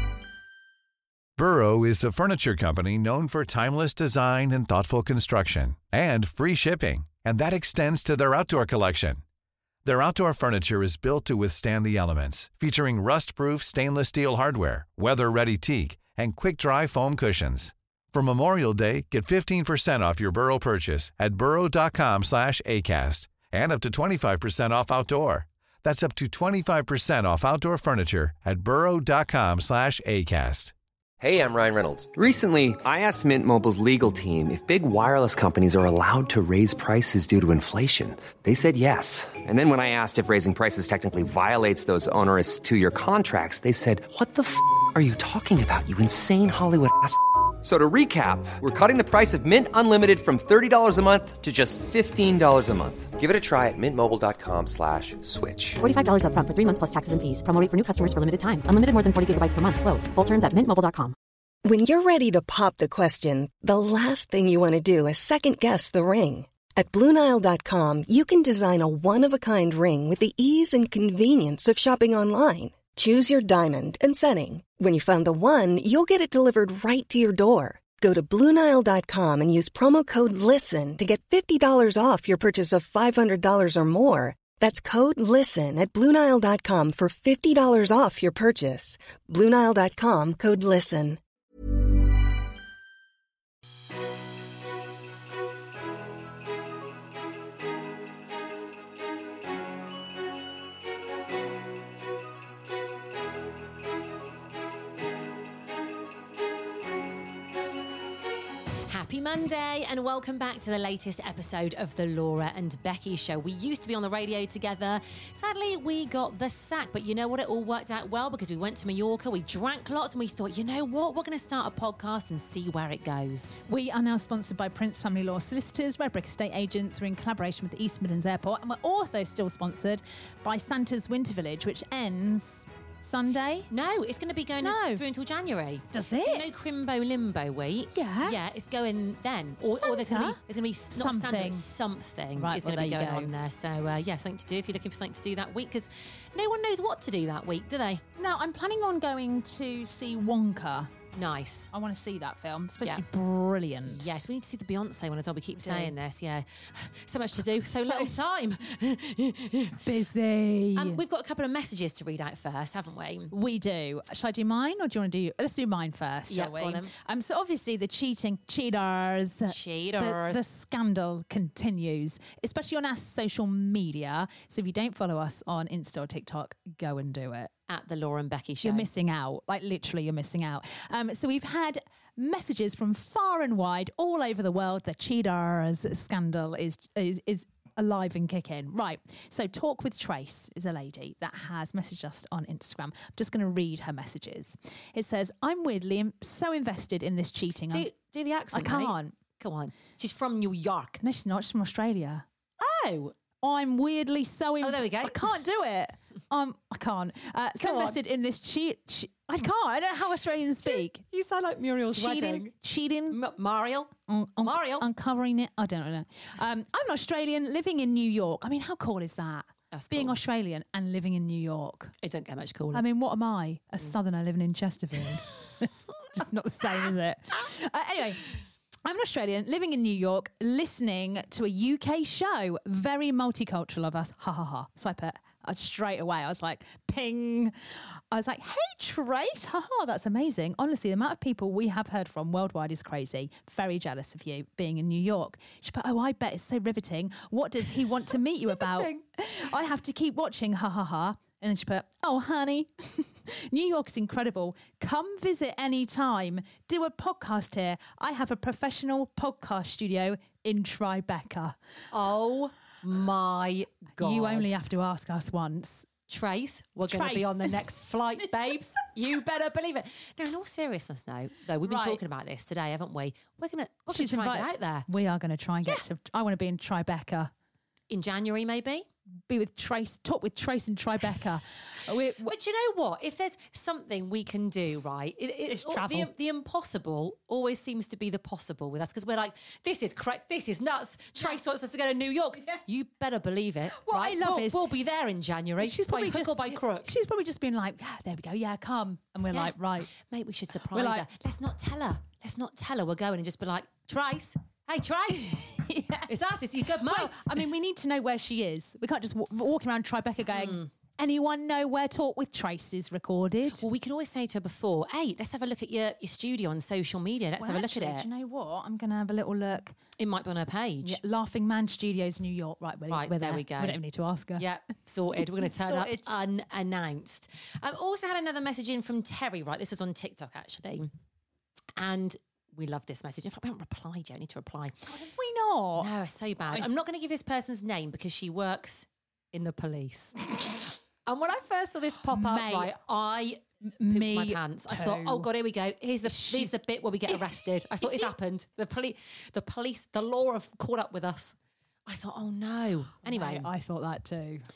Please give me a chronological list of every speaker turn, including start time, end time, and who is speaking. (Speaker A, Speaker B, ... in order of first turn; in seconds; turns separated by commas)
Speaker A: 1.4-9.2, Speaker A: 9.8-30.7, Speaker B: 31.2-55.8, Speaker C: 55.8-61.1, Speaker D: 61.6-91.2, Speaker E: 108.9-123.6, Speaker F: 123.7-133.7, Speaker E: 133.7-148.0, Speaker F: 134.6-135.0, Speaker F: 135.9-136.5, Speaker F: 137.9-138.4, Speaker F: 139.8-140.4, Speaker F: 140.9-141.7, Speaker F: 142.3-143.3, Speaker F: 148.2-150.9, Speaker E: 151.1-151.7, Speaker F: 151.7-154.2, Speaker E: 153.8-159.8, Speaker F: 155.6-155.9, Speaker F: 157.4-158.1, Speaker F: 159.8-161.0, Speaker E: 160.8-163.3, Speaker F: 163.3-177.5, Speaker E: 166.3-166.9, Speaker E: 169.5-170.4, Speaker E: 177.7-178.9, Speaker F: 178.6-197.9, Speaker E: 197.7-201.0, Speaker F: 198.5-199.1, Speaker F: 201.0-202.2, Speaker E: 202.6-203.1, Speaker F: 203.4-211.0, Speaker E: 204.6-205.2, Speaker E: 207.6-208.0, Speaker E: 210.6-212.5, Speaker F: 211.9-213.2, Speaker E: 213.1-214.9, Speaker F: 214.1-221.9, Speaker E: 219.7-220.2, Speaker E: 222.0-222.8, Speaker F: 222.7-228.3, Speaker F: 228.8-237.5, Speaker F: 238.1-261.6, Speaker E: 248.6-248.9, Speaker E: 261.9-264.7, Speaker F: 264.0-265.9, Speaker E: 266.1-274.9, Speaker F: 266.9-267.6, Speaker F: 271.6-272.0, Speaker F: 273.9-277.3, Speaker E: 277.9-278.9, Speaker F: 279.3-282.3, Speaker E: 282.2-296.9, Speaker F: 285.5-286.1, Speaker F: 293.8-294.6, Speaker F: 295.6-299.9, Speaker E: 299.3-305.4, Speaker F: 300.7-301.1, Speaker F: 305.4-306.1, Speaker E: 306.1-307.4, Speaker F: 306.7-313.6, Speaker E: 310.3-310.7, Speaker E: 313.5-318.1, Speaker F: 317.4-319.8, Speaker E: 320.0-321.0, Speaker F: 320.8-324.4, Speaker E: 322.9-323.8, Speaker E: 324.4-330.9, Speaker F: 325.2-326.0, Speaker E: 331.8-334.9, Speaker F: 334.9-336.7, Speaker E: 335.8-340.4, Speaker E: 341.0-351.4, Speaker F: 342.1-342.7, Speaker F: 343.8-345.3, Speaker F: 346.0-346.5, Speaker F: 347.1-348.1, Speaker E: 351.9-353.5, Speaker F: 353.0-354.5